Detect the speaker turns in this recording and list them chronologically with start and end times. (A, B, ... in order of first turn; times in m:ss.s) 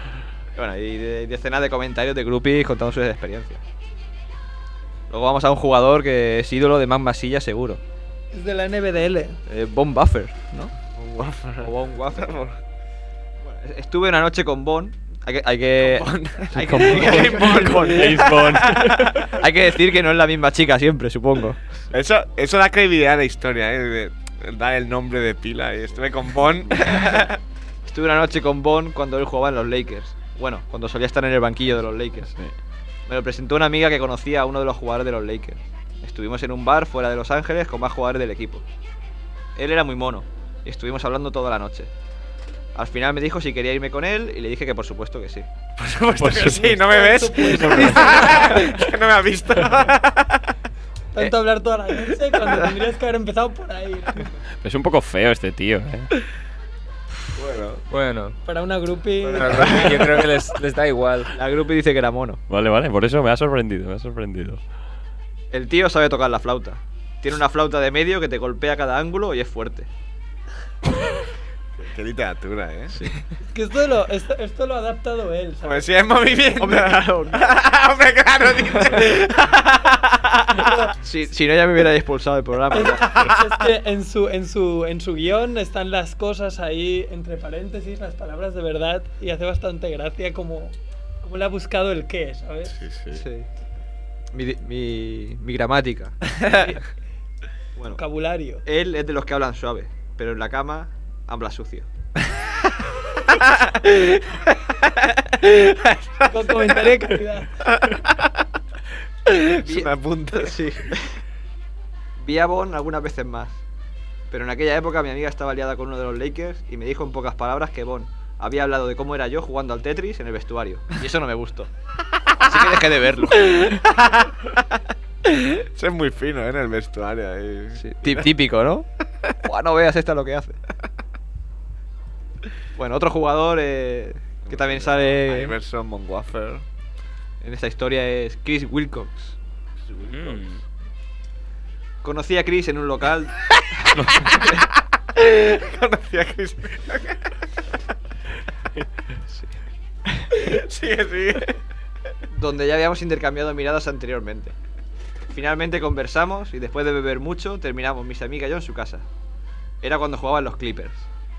0:00.5-0:03.6 A
0:05.1-0:07.8 A
0:08.3-0:09.4 B
0:09.5-0:10.7 A
0:10.9-0:12.6 C
0:11.6-0:12.4 A
0:13.4-0:17.8 A
0:15.8-0:19.2 C
0:16.5-0:19.3 D
0:19.4-0:21.6 A
0:21.9-0:27.4 C
0:26.8-0:27.3 A
0:27.8-0:32.3 A
0:33.1-0:38.6 A
0:39.6-0:41.9 A
0:42.7-0:45.5 A
0:45.8-0:50.5 C
0:46.2-0:46.8 D
0:46.4-0:48.7 B
0:47.6-0:48.4 D
0:51.1-0:54.3 B
0:54.6-0:56.1 D
0:57.3-0:57.8 C
0:57.9-0:58.3 E
0:58.4-1:00.0 B
0:59.2-1:00.1 C
0:59.3-1:01.3 E
1:01.3-1:02.4 A
1:02.5-1:04.6 D
1:05.5-1:09.9 A
1:11.8-1:13.0 C
1:13.5-1:15.9 B
1:15.6-1:20.8 C
1:16.5-1:17.6 A
1:18.7-1:19.1 A
1:20.5-1:20.9 B
1:21.0-1:23.0 A
1:22.7-1:32.7 B
1:22.8-1:23.7 C
1:32.7-1:33.2 C
1:33.1-1:33.5 A
1:34.3-1:36.7 A
1:36.4-1:36.8 B
1:37.8-1:38.0 A
1:37.9-1:38.6 B
1:38.6-1:41.9 A
1:43.4-1:43.9 C
1:45.8-1:46.6 C
1:46.3-1:47.5 B
1:47.6-1:48.4 C
1:49.3-1:50.6 C
1:49.6-1:51.2 A
1:52.2-1:53.6 A
1:54.3-2:01.7 A
2:02.4-2:03.7 A
2:03.5-2:04.4 C
2:05.5-2:08.3 C
2:07.8-2:08.8 A
2:09.4-2:10.6 A
2:12.8-2:15.6 A
2:14.4-2:16.6 C
2:17.4-2:19.4 A
2:19.8-2:20.4 C
2:20.1-2:20.5 D
2:22.0-2:23.4 A
2:23.9-2:24.4 D
2:24.3-2:24.6 A
2:25.2-2:27.2 C
2:30.4-2:31.6 C
2:32.3-2:34.5 A
2:35.3-2:39.0 A
2:39.8-2:41.1 A